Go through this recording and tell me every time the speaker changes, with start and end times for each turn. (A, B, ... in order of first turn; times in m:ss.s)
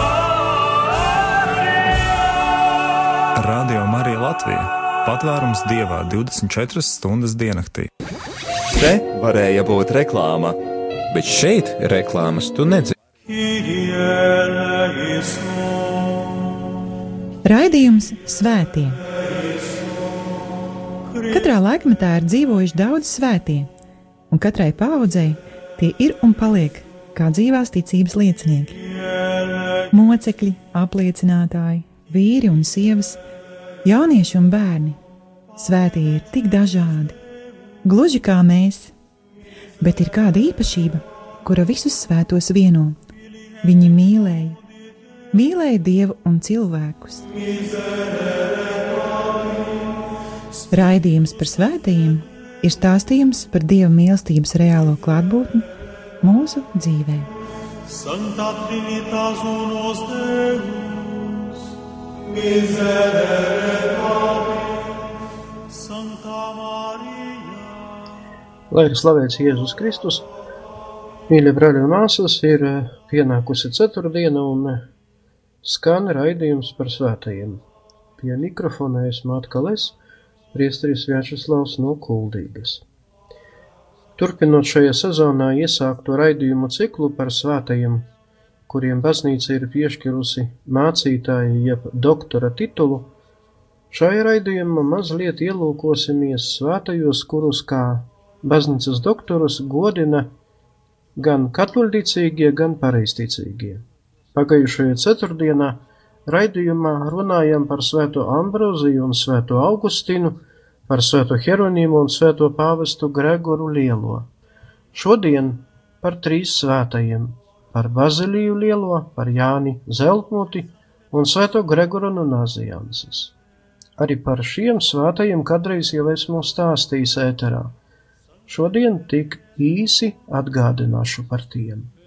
0:03.4-0:07.9 A
0:08.8-0:13.0 B
0:13.3-0:16.4 C
0:17.4-0:19.0 D
0:21.1-0:21.4 C
0:21.3-0:23.7 D
0:24.3-0:28.8 D
0:29.0-0:29.9 C
0:29.9-0:33.2 D
0:33.8-0:35.0 D
0:35.6-0:37.2 D
0:37.8-0:38.9 D
0:39.8-0:43.0 D
0:43.6-0:44.6 D
0:45.3-0:47.3 D
0:47.5-0:49.7 C
0:50.7-0:55.7 D
0:56.2-0:57.3 D
0:57.9-1:01.6 C
1:02.3-1:04.9 C
1:05.7-1:07.9 C
1:08.7-1:10.3 E
1:11.3-1:14.8 E
1:15.6-1:17.6 E
1:18.2-1:20.0 E
1:20.5-1:22.8 E
1:24.2-1:28.1 E
1:28.7-1:33.1 E
1:33.9-1:40.3 E
1:41.2-1:43.8 E
1:44.3-1:54.3 E
1:54.9-2:03.3 E
2:04.0-2:07.8 E
2:08.5-2:11.9 E